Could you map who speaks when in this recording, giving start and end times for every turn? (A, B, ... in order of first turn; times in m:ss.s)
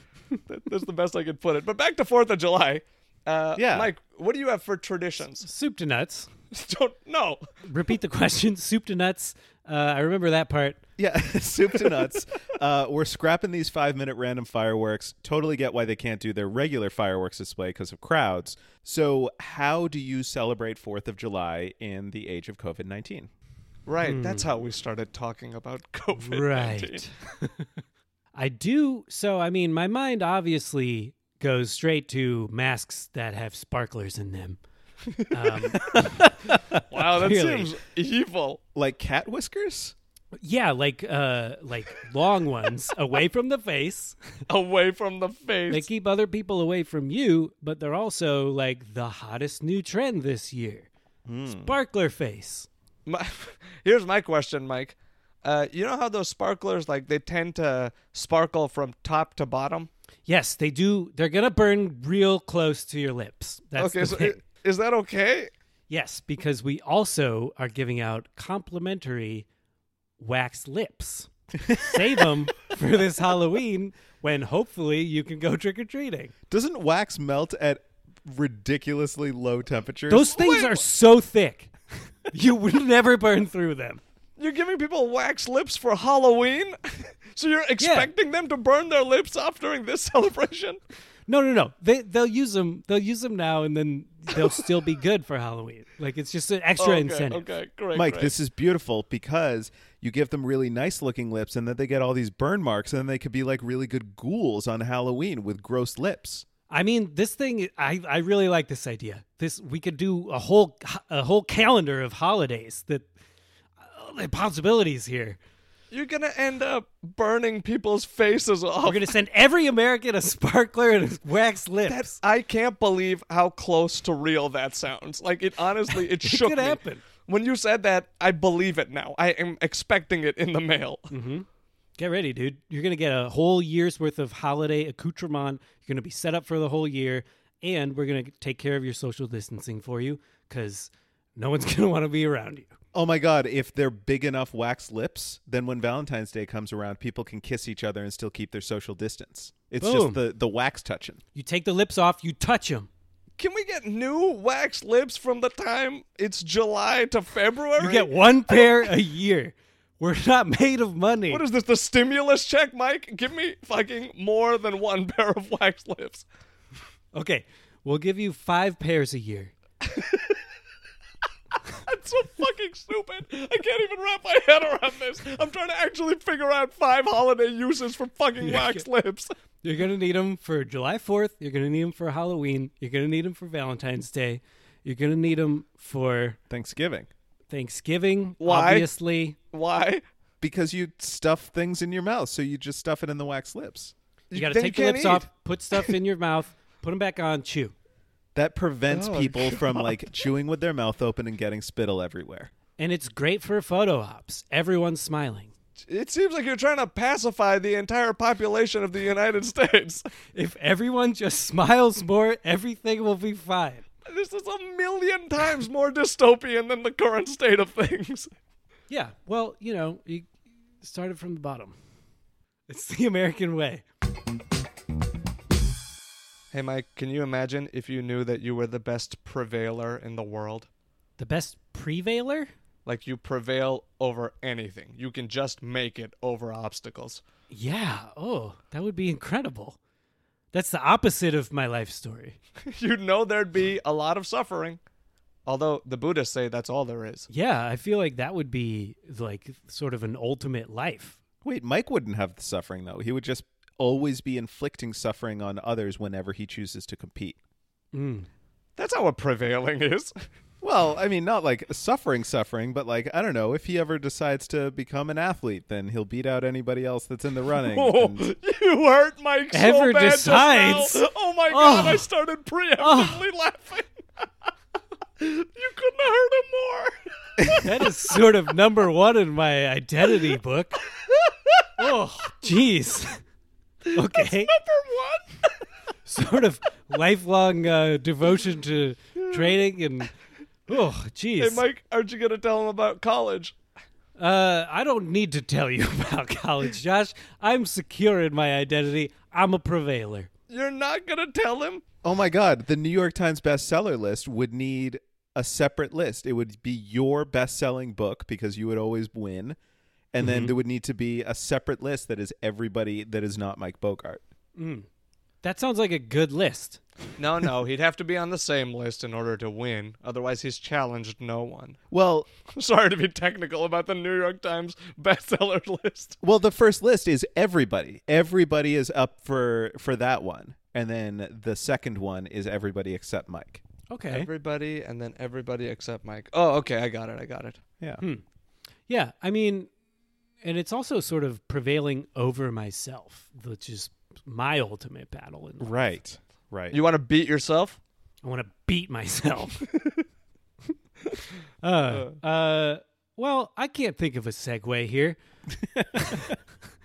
0:00.5-0:05.5 A
0:03.6-0:03.9 B
0:05.4-0:06.3 C
0:06.5-0:07.5 A
0:07.7-0:10.8 C
0:11.0-0:23.3 B
0:23.9-0:27.0 A
0:24.0-0:24.5 C
0:26.2-0:27.7 C
0:28.3-0:34.6 C
0:35.1-0:35.8 A
0:35.3-0:37.7 C
0:36.9-0:38.6 A
0:38.8-0:40.0 B
0:40.4-0:44.2 C
0:44.5-0:45.9 A
0:45.7-0:50.9 C
0:51.3-0:51.7 B
0:51.5-0:52.7 C
0:53.1-0:59.9 A
1:00.3-1:04.4 C
1:03.8-1:05.5 A
1:05.9-1:09.5 C
1:10.2-1:16.3 C
1:11.6-1:12.0 B
1:16.5-1:20.4 B
1:20.1-1:21.7 C
1:20.3-1:20.8 A
1:22.2-1:24.0 C
1:24.4-1:30.8 A
1:27.8-1:28.1 C
1:31.3-1:37.5 C
1:36.8-1:38.3 A
1:38.0-1:46.5 B
1:46.7-1:53.1 C
1:53.8-1:55.4 C
1:55.9-1:59.1 A
1:58.8-2:02.1 C
2:01.9-2:11.1 A
2:06.0-2:07.0 C
2:11.1-2:11.5 C
2:12.0-2:22.7 C
2:22.9-2:31.2 B
2:29.8-2:30.2 C
2:31.4-2:32.9 C
2:33.4-2:38.9 A
2:37.8-2:41.4 C
2:41.3-2:46.2 A
2:47.1-2:49.5 C
2:49.8-2:50.4 A
2:51.7-2:59.3 A
2:58.4-2:58.8 C
2:59.6-3:06.4 C
3:06.5-3:07.1 B
3:07.5-3:09.4 C
3:08.4-3:08.9 A
3:09.5-3:10.0 A
3:10.4-3:13.9 B
3:14.3-3:15.9 A
3:14.3-3:17.7 C
3:18.4-3:22.5 B
3:18.9-3:20.0 A
3:22.8-3:25.5 C
3:25.9-3:30.1 A
3:30.3-3:33.8 C
3:34.1-3:38.3 A
3:38.9-3:40.3 C
3:40.8-3:41.8 C
3:42.7-3:43.8 C
3:46.5-3:50.7 A
3:51.2-3:52.5 C
3:52.9-3:57.2 A
3:57.5-3:59.8 C
4:00.5-4:02.4 C
4:02.7-4:04.8 A
4:05.5-4:07.3 A
4:07.3-4:11.2 C
4:11.4-4:17.4 B
4:17.9-4:18.3 C
4:18.8-4:20.1 A
4:20.6-4:28.3 B
4:27.7-4:34.0 A
4:29.5-4:32.1 C
4:32.8-4:33.3 C
4:35.2-4:38.2 A
4:37.6-4:40.8 C
4:41.0-4:41.7 A
4:41.8-4:43.2 C
4:43.9-4:45.5 A
4:43.9-4:44.5 C
4:46.1-4:50.1 C
4:49.2-4:49.6 A
4:50.7-4:51.6 C
4:51.4-4:53.6 A
4:54.2-5:00.3 C
5:00.5-5:01.8 A
5:02.0-5:09.6 B
5:10.1-5:14.2 B
5:10.2-5:10.5 C
5:14.6-5:14.9 C
5:15.4-5:16.8 C
5:17.2-5:21.8 A
5:21.9-5:22.3 B
5:22.5-5:26.2 A
5:26.2-5:33.6 B
5:33.9-5:34.3 C
5:34.1-5:37.6 A
5:38.9-5:39.7 C
5:40.4-5:45.7 C
5:45.6-5:46.8 B
5:46.7-5:47.8 A
5:48.2-5:49.7 C
5:51.1-5:55.2 C
5:51.9-5:52.2 A
5:55.8-5:56.2 B
5:56.0-5:56.3 C